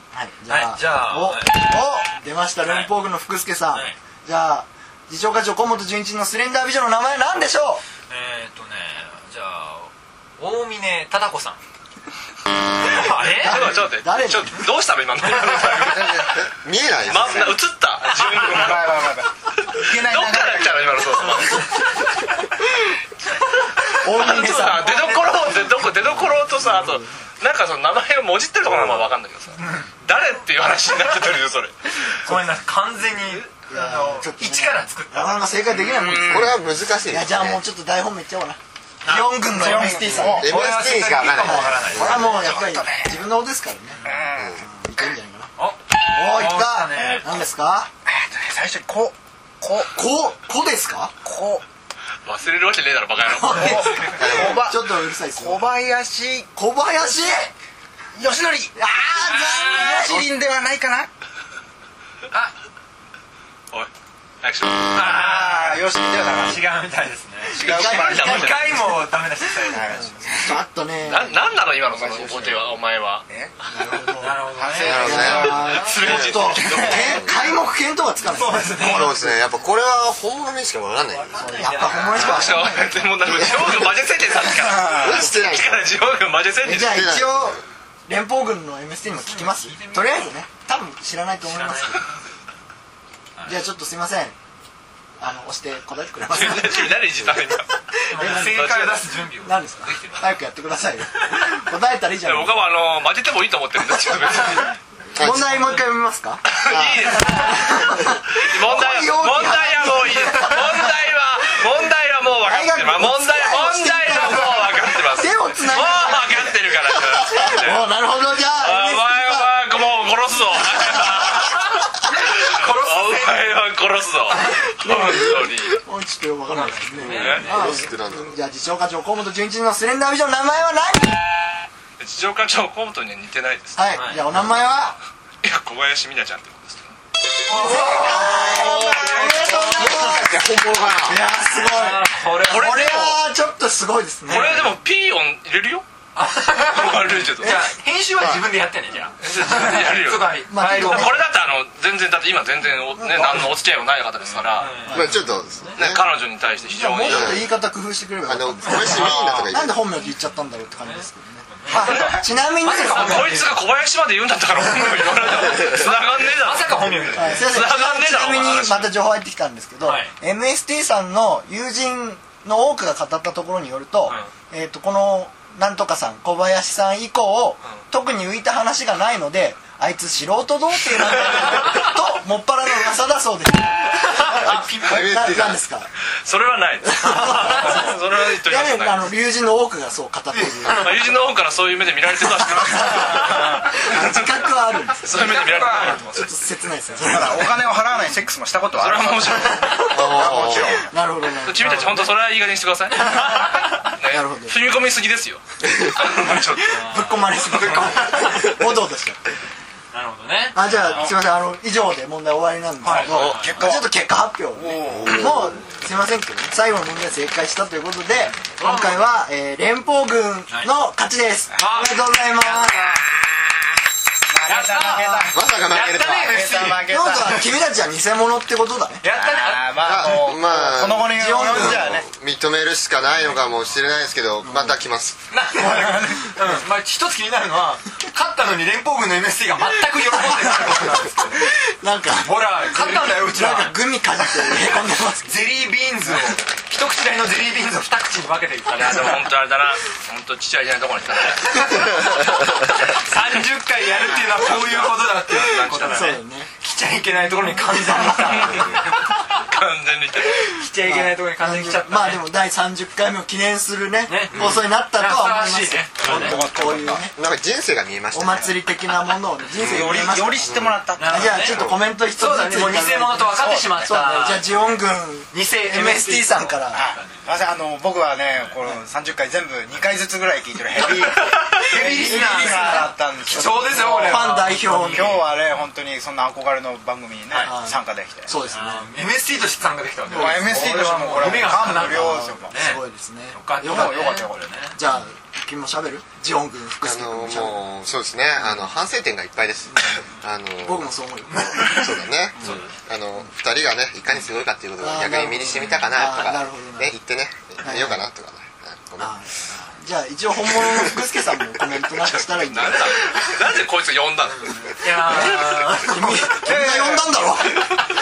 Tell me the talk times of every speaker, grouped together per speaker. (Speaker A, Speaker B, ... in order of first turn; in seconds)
Speaker A: 0.1-7.8, 13.2-14.6, 24.0-25.3, 26.5-27.1, 33.7-36.6, 37.1-40.5, 41.4-44.0, 44.6-47.9, 49.9-51.1, 53.3-55.7, 56.5-57.5, 58.8-60.3, 67.5-68.7, 69.9-71.5, 73.7-79.5, 81.3-83.0, 86.6-92.1, 93.5-94.3, 95.2-97.3, 98.0-98.9, 99.4-102.6, 105.2-106.5, 107.1-110.9, 112.4-119.5, 120.7-121.7, 124.3-131.2, 133.8-135.0, 137.5-140.4, 141.0-144.7, 150.5-151.3, 153.0-153.5, 154.9-155.2, 156.7-163.4, 167.2-185.9, 186.9-191.1, 192.3-197.8, 199.5-200.3, 200.8-202.1, 203.1-204.6, 206.8-209.2, 210.5-223.0, 226.8-229.0, 231.0-231.9, 234.4-234.8, 235.6-236.6, 240.1-245.4, 255.9-256.5, 257.5-258.8, 260.9-267.2, 268.1-276.8, 280.8-285.2, 287.4-288.9, 290.1-290.6, 291.5-294.1, 294.7-297.6, 299.7-300.0, 300.6-302.6, 304.8-307.0, 307.6-308.0, 309.0-313.3, 315.0-317.7
Speaker B: 0.5-1.7, 2.6-2.9, 8.1-11.6, 12.8-13.8, 29.6-29.9, 32.0-35.4, 39.0-42.3, 45.6-47.3, 59.2-60.1, 64.9-70.2, 74.2-76.0, 78.3-79.2, 81.2-82.6, 89.0-90.3, 91.4-92.0, 98.1-99.6, 122.1-123.5, 126.5-127.7, 133.9-134.2, 137.5-138.6, 141.6-143.2, 144.3-144.7, 146.2-151.3, 154.5-155.0, 160.8-163.6, 164.6-167.5, 169.8-170.1, 184.3-185.2, 187.2-187.8, 195.2-196.3, 203.1-203.7, 206.7-208.6, 209.9-211.1, 212.8-213.6, 218.4-219.0, 221.6-223.0, 224.4-227.4, 229.0-230.1, 235.3-241.5, 242.2-243.8, 245.2-249.3, 252.9-259.4, 260.4-262.2, 264.1-266.4, 271.0-277.2, 280.8-285.2, 288.4-292.8, 293.3-294.8, 301.3-302.7, 314.7-316.4
Speaker C: 13.2-16.3, 17.0-19.1, 19.7-21.9, 24.1-31.9, 52.2-54.2, 64.4-65.0, 67.7-68.7, 71.0-73.3, 75.3-77.3, 82.1-87.0, 96.3-99.1, 99.8-100.2, 102.2-104.8, 106.5-117.9, 118.5-125.8, 127.0-127.6, 132.0-133.9, 135.4-136.9, 142.4-143.2, 144.3-145.8, 146.7-147.6, 149.2-154.9, 155.8-157.4, 162.8-168.9, 186.2-189.1, 190.7-196.3, 198.8-199.9, 201.4-206.9, 248.7-252.0, 255.3-256.1, 258.3-260.5, 312.0-315.8
Speaker D: 15.7-16.4, 18.2-20.9, 39.5-40.5, 42.0-43.2, 44.0-44.6, 46.9-47.3, 48.1-50.0, 51.2-51.6, 53.5-56.5, 58.1-58.7, 59.5-61.1, 65.0-66.7, 67.5-68.8, 69.7-70.6, 71.9-72.8, 73.3-73.5, 74.5-75.9, 84.4-85.3, 158.9-159.6, 161.7-162.2, 193.1-193.6, 197.0-200.9, 212.9-214.0, 214.5-215.5, 224.3-225.5, 226.2-227.5, 229.1-232.1, 266.0-267.0, 269.6-271.7, 273.3-273.9, 276.7-288.3, 290.1-292.5, 293.6-294.4, 316.4-317.2
Speaker E: 16.3-17.6, 28.7-29.1, 35.8-37.6, 40.0-42.5, 44.4-44.6, 54.2-54.7, 74.8-77.4, 78.8-82.6, 83.2-84.0, 84.9-86.0, 86.6-87.6, 105.1-105.7, 106.7-107.1, 127.3-128.4, 137.7-141.2, 148.2-148.5, 154.9-156.1, 157.1-157.5, 158.3-159.8, 184.2-185.6, 199.9-200.8, 214.9-215.5, 225.3-226.4, 229.8-235.2, 264.3-264.6, 267.2-268.6, 269.6-271.8, 296.9-300.9, 301.7-309.1